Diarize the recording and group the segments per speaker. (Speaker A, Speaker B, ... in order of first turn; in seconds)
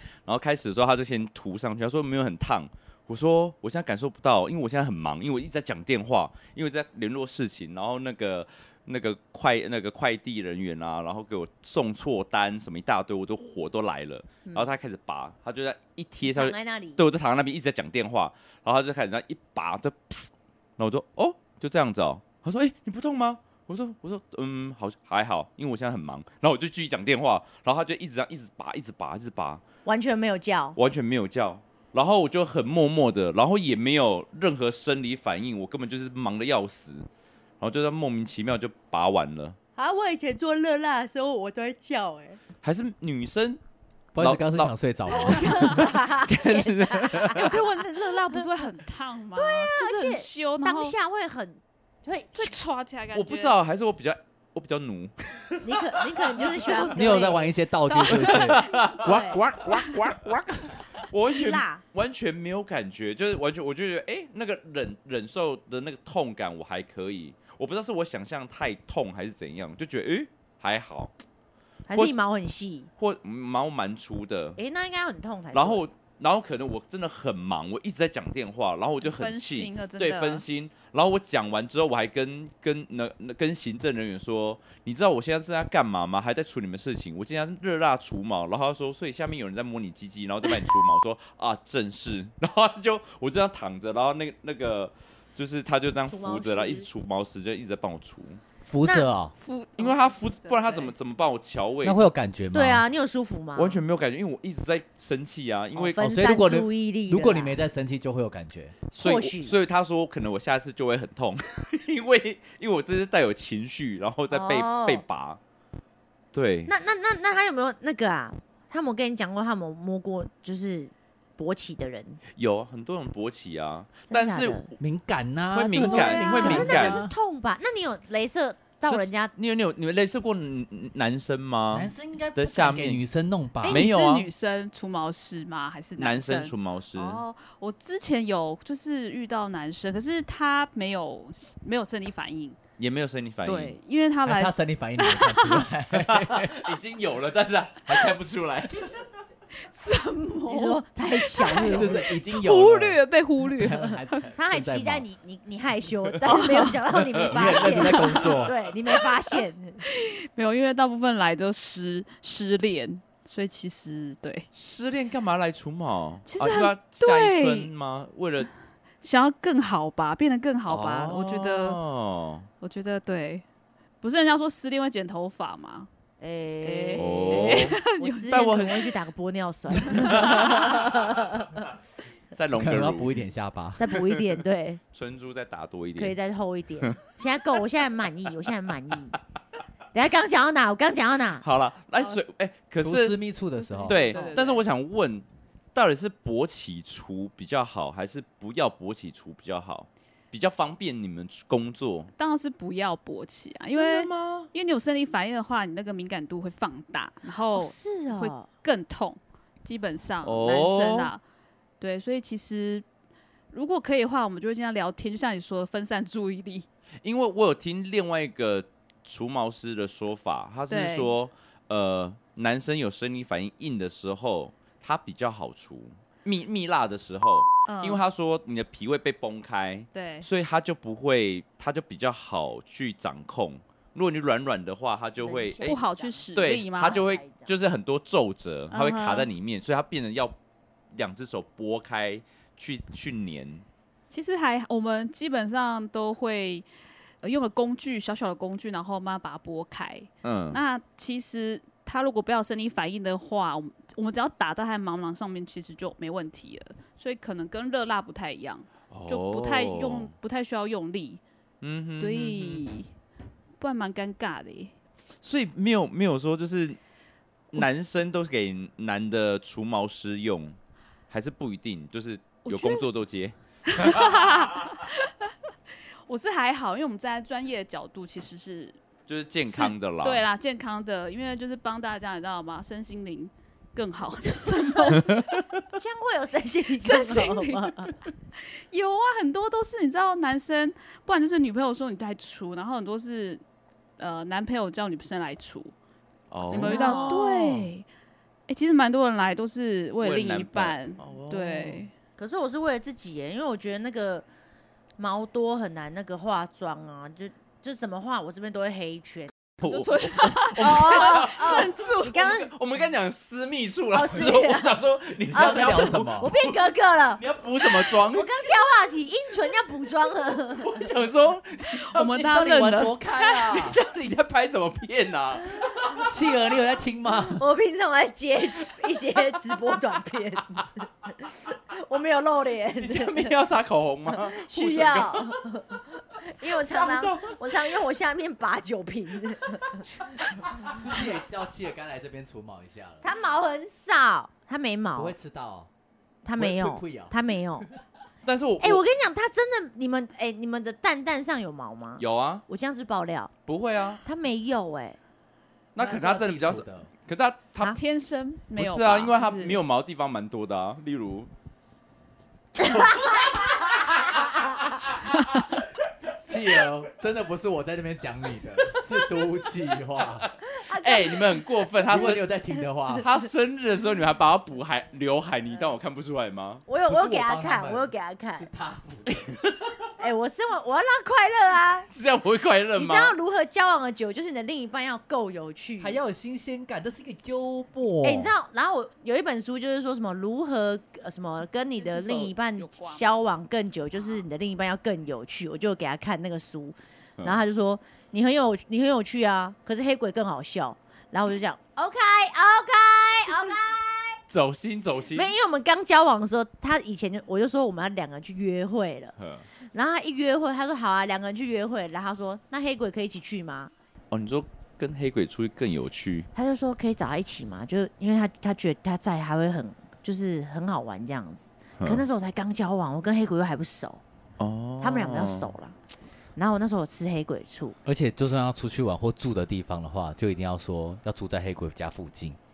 Speaker A: 0.2-29.6, 30.8-37.1, 37.6-39.6, 42.6-43.6, 44.2-44.8, 45.5-47.6, 53.1-55.8, 58.1-71.1, 71.9-72.2, 73.0-74.6, 75.5-98.4, 99.8-102.0, 103.6-106.2, 108.9-115.4, 116.3-116.7, 122.3-124.8, 125.5-127.1, 128.8-133.0, 133.6-134.3, 136.0-137.2, 142.8-143.8, 145.9-149.1, 164.5-168.5, 170.7-172.5, 177.0-178.9, 179.9-180.6, 182.3-183.2, 184.9-186.2, 191.4-193.2, 193.8-202.1, 203.7-204.5, 210.2-211.1, 217.0-235.8, 236.3-240.4, 240.9-243.7, 250.2-250.6, 258.9-260.1, 261.6-262.7, 265.2-266.8, 267.5-270.6, 271.1-274.3, 279.1-280.3, 296.3-297.6, 300.0-301.8, 309.6-318.3, 320.6-322.7, 323.4-326.1, 332.8-335.4, 336.5-337.4, 348.2-348.8, 352.0-352.4, 353.5-354.0, 355.8-357.8, 358.6-361.3, 370.0-372.3, 372.9-376.6, 379.1-379.7, 381.9-383.2, 404.3-405.3, 409.2-409.5, 414.1-416.3, 421.8-422.1, 424.4-425.5
Speaker B: 16.2-17.0, 29.9-30.8, 39.8-42.4, 45.1-47.6, 49.3-52.6, 55.6-57.5, 59.0-59.5, 61.3-61.8, 71.9-72.9, 74.6-75.8, 96.1-96.9, 102.5-103.8, 105.8-107.6, 109.0-109.6, 114.3-115.0, 116.7-122.2, 124.1-124.7, 125.8-129.3, 150.5-152.1, 154.3-159.8, 176.2-181.7, 183.8-184.8, 186.0-189.2, 189.9-191.5, 207.5-208.5, 235.2-237.5, 285.8-287.9, 296.5-297.2, 302.2-304.3, 305.0-309.3, 310.6-312.5, 313.9-320.9, 327.3-333.3, 334.1-340.4, 343.0-345.1, 346.2-347.7, 348.6-353.3, 354.1-355.0, 370.5-372.2, 376.7-378.5, 380.0-381.9, 382.8-386.0, 388.0-404.2, 405.1-409.2, 409.7-413.7, 416.4-424.0, 424.8-425.8, 426.4-427.8
Speaker C: 44.1-45.8, 56.9-60.6, 98.7-99.3, 101.8-102.9, 106.0-108.8, 124.8-127.1, 131.7-133.9, 144.2-146.7, 151.6-155.1, 156.5-158.5, 182.6-184.0, 192.8-194.0, 315.2-316.3, 322.2-323.8, 326.0-327.4, 340.0-343.1, 344.9-345.7, 346.4-347.6, 355.8-356.9, 366.2-370.3, 371.9-373.1, 376.9-379.2, 385.8-388.3, 427.9-432.4
Speaker D: 45.3-45.9, 47.3-51.0, 52.4-53.6, 56.5-56.9, 57.9-58.8, 79.0-80.4, 99.4-100.9, 125.7-127.0, 133.6-142.6, 143.4-145.7, 149.7-154.2, 157.4-158.9, 159.9-164.5, 166.3-167.7, 169.0-171.8, 172.6-173.4, 174.0-175.9, 176.6-178.7, 179.9-180.8, 193.5-194.6, 202.2-211.2, 211.8-212.8, 213.5-216.7, 220.7-221.1, 227.7-228.0, 229.9-230.3, 235.6-237.1, 238.7-239.3, 244.1-246.7, 247.2-261.2, 262.0-262.9, 263.6-264.7, 272.4-272.9, 273.7-275.3, 276.1-278.8, 279.4-285.3, 286.8-293.4, 294.0-295.8, 296.4-297.9, 298.5-301.9, 309.6-312.5, 321.7-323.5, 357.7-359.6, 391.8-393.1